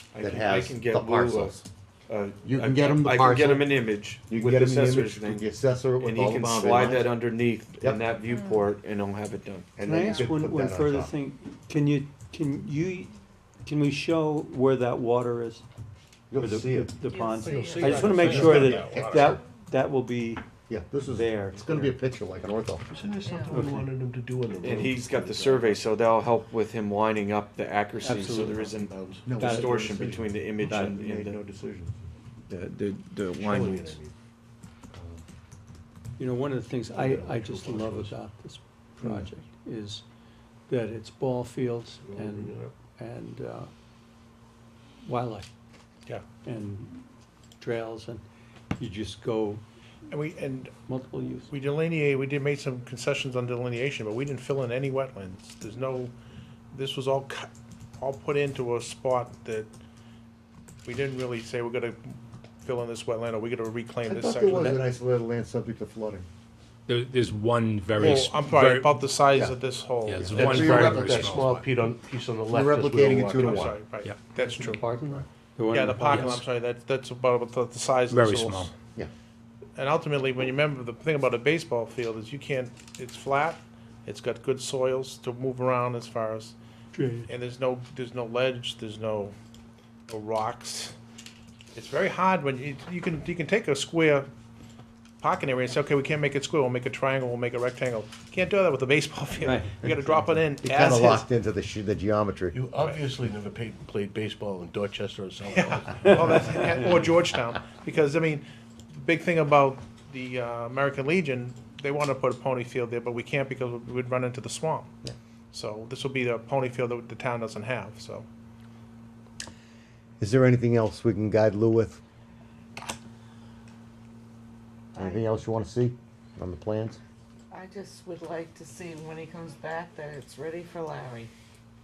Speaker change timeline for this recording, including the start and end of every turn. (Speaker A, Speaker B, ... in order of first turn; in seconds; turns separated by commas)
Speaker A: 0.1-5.5, Speaker B: 0.2-1.7, Speaker B: 2.4-3.7, Speaker B: 4.2-7.2, Speaker A: 6.0-9.7, Speaker B: 7.8-8.0, Speaker B: 9.8-11.1, Speaker C: 9.8-15.6, Speaker B: 16.3-16.9, Speaker C: 16.4-20.4, Speaker D: 17.4-19.3, Speaker B: 18.7-19.3, Speaker B: 20.7-22.9, Speaker C: 21.1-21.9, Speaker D: 22.9-25.9, Speaker C: 23.5-23.9, Speaker A: 24.6-28.9, Speaker C: 28.0-28.6, Speaker D: 28.2-29.4, Speaker B: 29.2-32.0, Speaker C: 29.3-29.8, Speaker A: 29.4-31.4, Speaker A: 32.5-34.0, Speaker D: 33.3-34.1, Speaker B: 34.9-35.2, Speaker C: 36.2-40.0, Speaker D: 36.9-38.2, Speaker C: 40.7-43.7, Speaker D: 42.0-42.7, Speaker C: 45.0-45.5, Speaker C: 46.4-47.0, Speaker C: 47.6-48.2, Speaker C: 48.8-49.6, Speaker E: 50.1-50.7, Speaker C: 50.9-51.5, Speaker E: 51.5-56.1, Speaker E: 56.7-59.7, Speaker E: 60.8-64.8, Speaker B: 64.0-66.2, Speaker F: 66.9-69.1, Speaker B: 68.0-68.2, Speaker E: 68.0-70.8, Speaker F: 70.0-71.6, Speaker B: 70.2-71.5, Speaker D: 70.3-73.7, Speaker B: 72.5-73.8, Speaker E: 73.4-74.8, Speaker F: 73.9-74.2, Speaker C: 74.4-76.4, Speaker E: 75.7-78.7, Speaker F: 76.1-76.4, Speaker F: 78.1-78.7, Speaker E: 79.8-86.5, Speaker C: 86.9-87.3, Speaker E: 87.2-89.3, Speaker E: 90.1-90.9, Speaker E: 91.7-94.3, Speaker E: 95.2-101.2, Speaker C: 99.4-99.9, Speaker B: 100.6-102.6, Speaker D: 102.5-106.5, Speaker E: 105.4-114.9, Speaker E: 115.5-118.3, Speaker B: 120.2-122.0, Speaker B: 124.9-127.0, Speaker G: 127.5-131.3